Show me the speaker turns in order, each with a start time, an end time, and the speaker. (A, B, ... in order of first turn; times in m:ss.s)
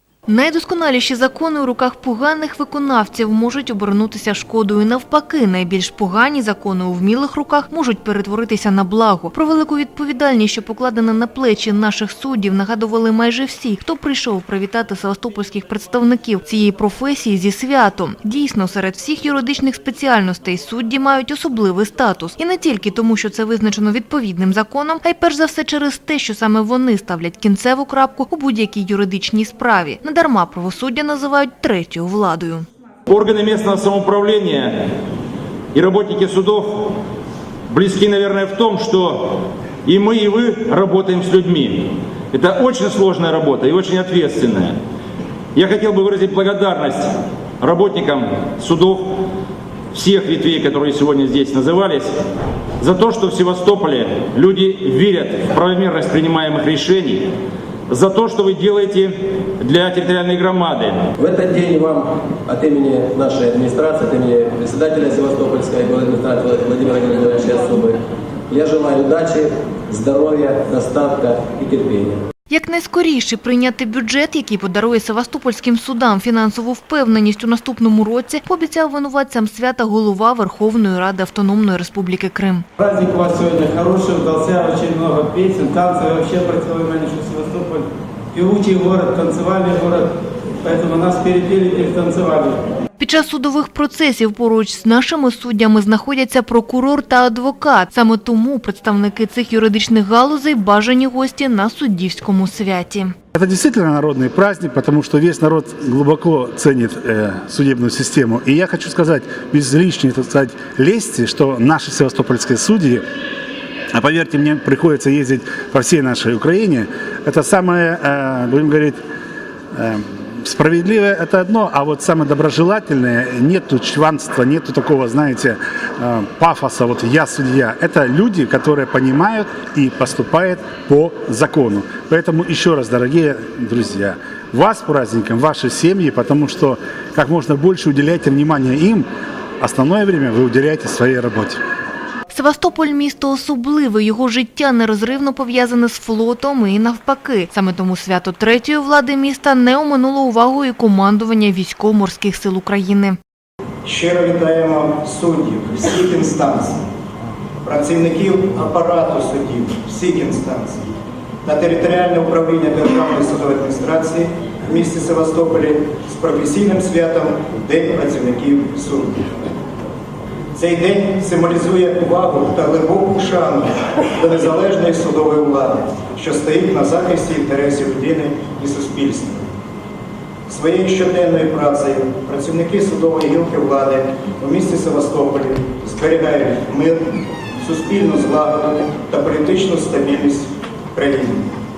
0:00.3-0:32.7 A
0:33.1-0:34.9 B
0:35.7-0:37.0 B
0:37.7-0:44.8 B
0:45.6-0:49.2 B
0:49.9-0:52.1 B
0:52.8-0:57.3 B
0:57.9-1:01.1 B
1:01.2-1:12.2 C
1:12.5-1:22.7 A
1:22.8-1:30.1 D
1:30.6-1:32.6 D
1:33.0-1:43.1 A
1:43.3-1:53.0 E
1:53.9-1:59.0 E
1:59.7-2:19.1 E
2:19.6-2:21.6 E
2:22.3-2:33.2 A
2:33.8-2:36.8 F
2:37.6-2:40.9 F
2:41.4-2:49.5 F
2:50.6-2:59.4 F
3:00.5-3:11.5 F